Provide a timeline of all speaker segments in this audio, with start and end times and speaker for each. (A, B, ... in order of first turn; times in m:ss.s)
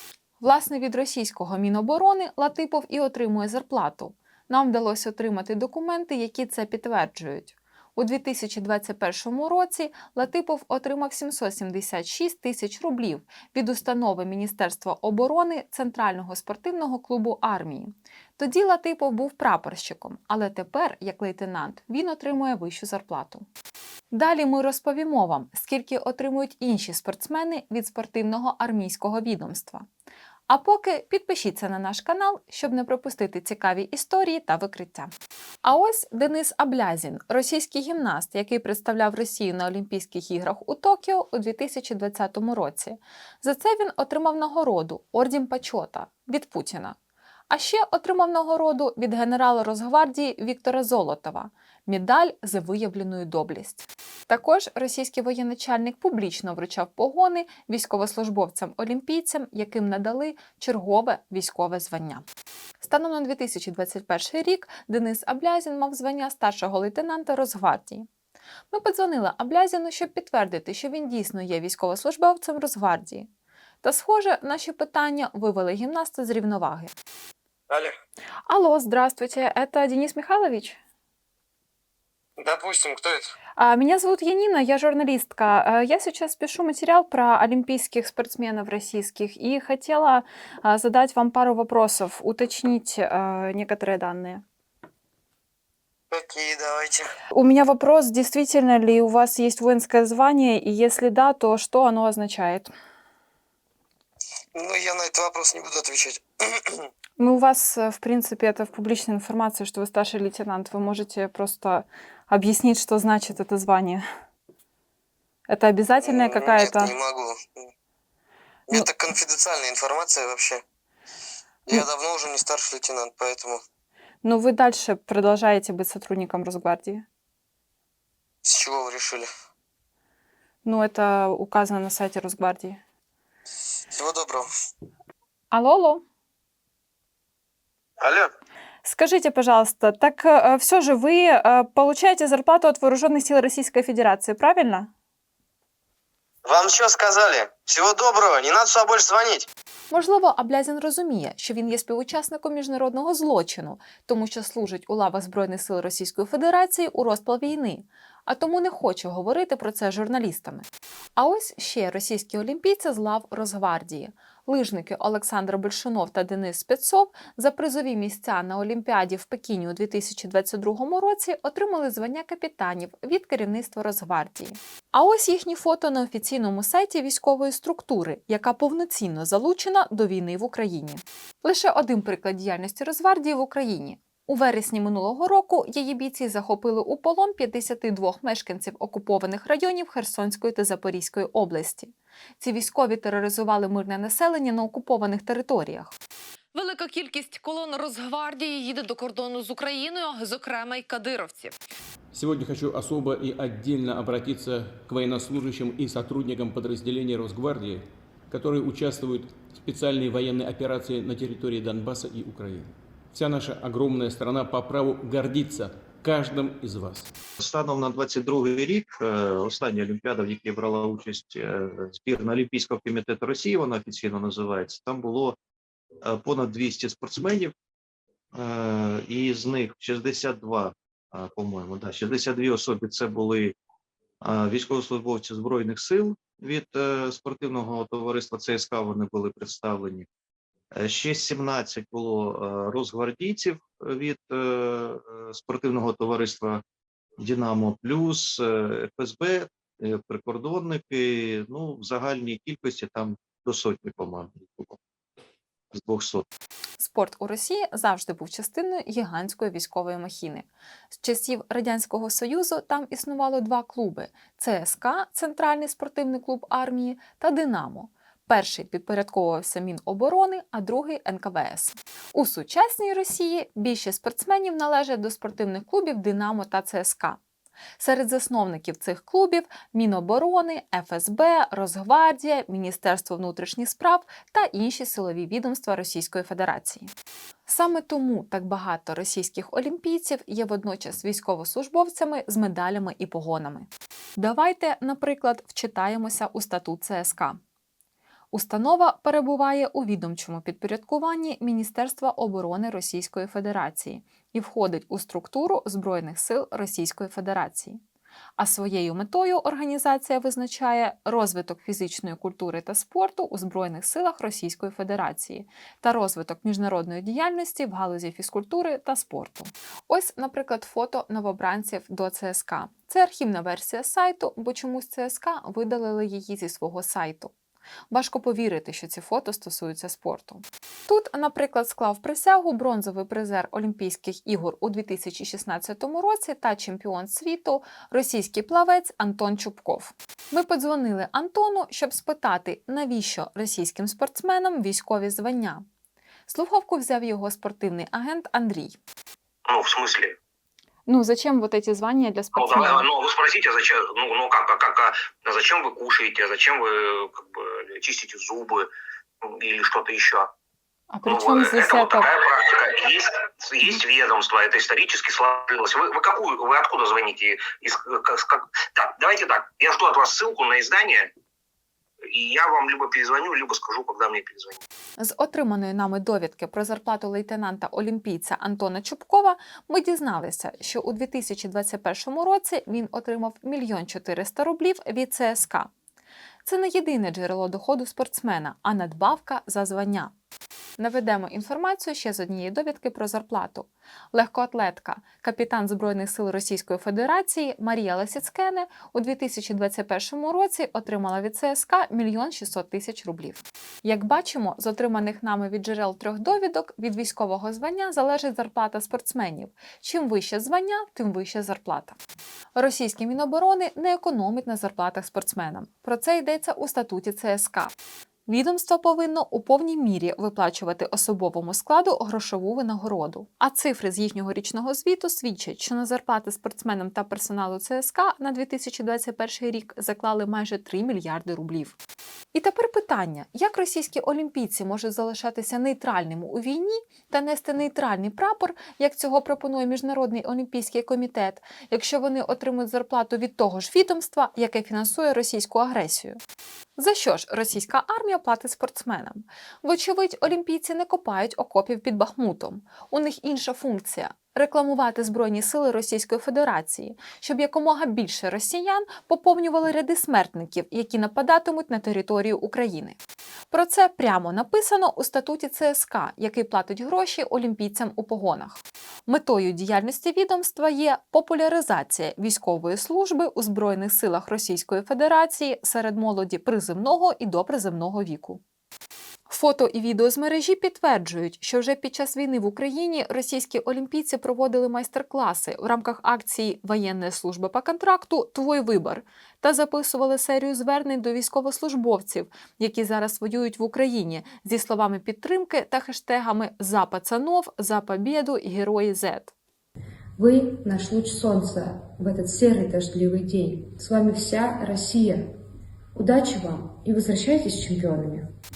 0:00.4-0:23.5 A
0:24.1-0:29.9 A
0:30.5-0:35.1 A
0:35.6-0:47.0 A
0:47.5-1:02.2 A
1:02.8-1:08.1 A
1:08.7-1:13.3 A
1:13.8-1:16.9 A
1:18.5-1:20.8 A
1:22.4-1:23.3 B
1:23.6-1:34.4 A
1:36.1-1:37.1 B
1:37.3-1:42.7 A
1:44.6-1:46.9 B
1:47.2-1:54.0 A
1:55.5-1:56.9 A
1:56.0-1:57.7 B
1:58.7-2:00.6 B
2:01.7-2:03.6 B
2:04.2-2:07.0 A
2:08.4-2:09.3 B
2:10.6-2:12.8 A
2:13.9-2:14.5 B
2:15.5-2:16.0 A
2:18.0-2:18.3 B
2:18.8-2:24.9 A
2:26.5-2:29.5 B
2:29.9-2:40.6 A
2:41.2-3:15.9 A
3:16.6-3:21.5 C
3:22.1-3:37.1 D
3:37.4-3:45.4 E
3:46.0-3:47.5 E
3:48.4-3:53.6 E
3:54.2-4:00.1 E
4:00.8-4:06.6 E
4:07.2-4:14.8 E
4:15.7-4:16.3 E
4:16.8-4:37.2 A
4:37.8-4:46.9 A
4:47.5-4:57.4 A
4:58.3-5:07.8 A
5:08.4-5:27.3 A
5:27.9-5:45.6 A
5:46.3-5:48.8 A
5:49.5-5:50.2 F
5:50.9-5:52.9 A
5:52.4-5:58.7 F
5:59.2-6:00.3 F
6:00.9-6:02.1 A
6:01.0-6:11.1 F
6:12.1-6:14.6 F
6:15.0-6:25.7 A
6:26.4-6:30.1 A
6:30.8-6:52.0 A
6:52.6-6:57.7 A
6:58.3-7:11.8 A
7:12.3-7:26.2 A
7:26.8-7:43.0 A
7:43.5-7:58.4 A
7:59.3-8:19.3 A
8:20.2-8:25.3 G
8:26.0-8:28.3 G